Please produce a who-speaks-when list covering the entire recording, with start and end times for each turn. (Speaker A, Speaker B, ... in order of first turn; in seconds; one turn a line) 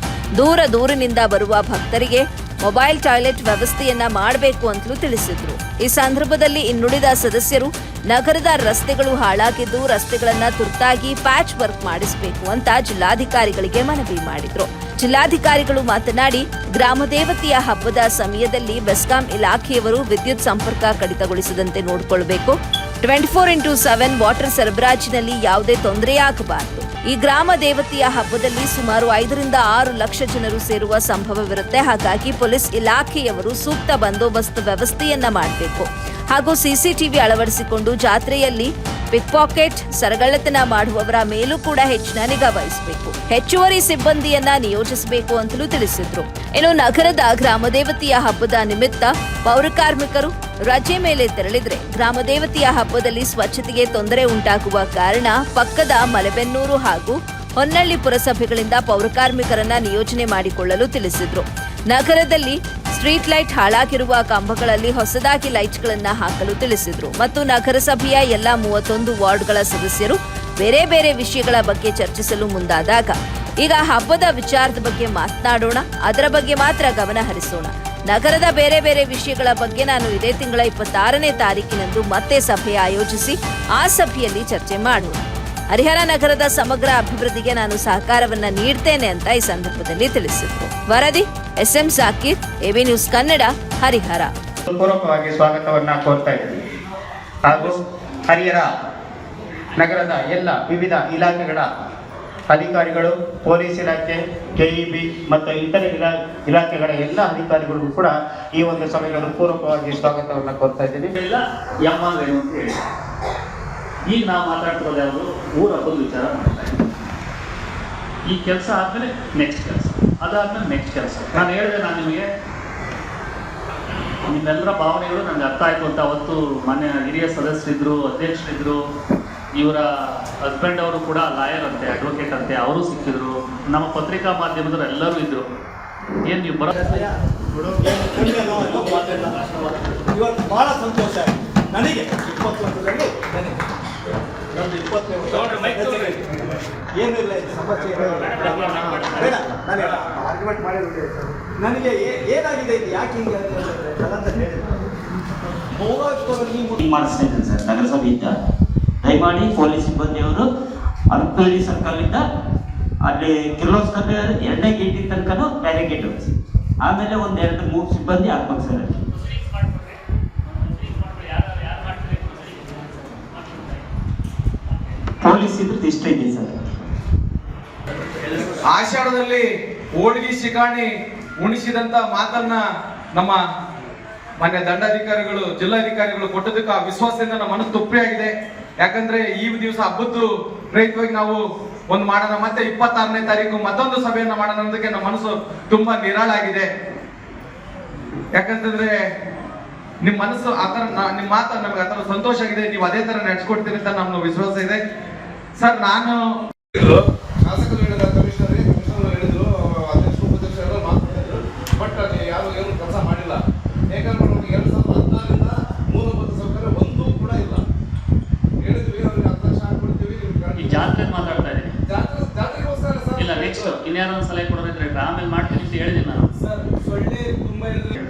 Speaker A: 0.4-85.2
Speaker A: 85.7-94.3
Speaker B: 94.7-96.6
Speaker B: 97.5-97.8
Speaker B: 98.3-98.7
Speaker B: 99.8-101.7
Speaker B: 102.5-111.1
Speaker C: 111.1-112.7
Speaker C: 114.1-116.8
Speaker C: 118.3-122.2
Speaker C: 124.3-128.8
Speaker C: 129.6-135.4
Speaker C: 136.2-137.0
Speaker D: 136.7-137.1
Speaker D: 137.8-143.6
Speaker D: 144.5-146.2
Speaker E: 145.3-146.1
Speaker D: 146.9-154.8
Speaker C: 148.4-149.2
Speaker D: 155.7-156.8
Speaker F: 156.8-158.3
Speaker F: 159.0-160.5
Speaker F: 161.1-162.2
Speaker F: 163.0-168.9
Speaker C: 169.3-170.0
Speaker C: 170.7-173.8
Speaker F: 175.2-176.5
Speaker E: 178.6-179.5
Speaker E: 180.0-182.6
Speaker E: 183.1-183.4
Speaker E: 184.4-196.7
Speaker E: 198.3-198.9
Speaker E: 200.0-204.8
Speaker E: 205.6-206.2
Speaker G: 206.8-217.6
Speaker G: 218.6-221.0
Speaker C: 220.5-221.7
Speaker G: 221.9-223.8
Speaker C: 223.2-226.3
Speaker G: 226.4-227.9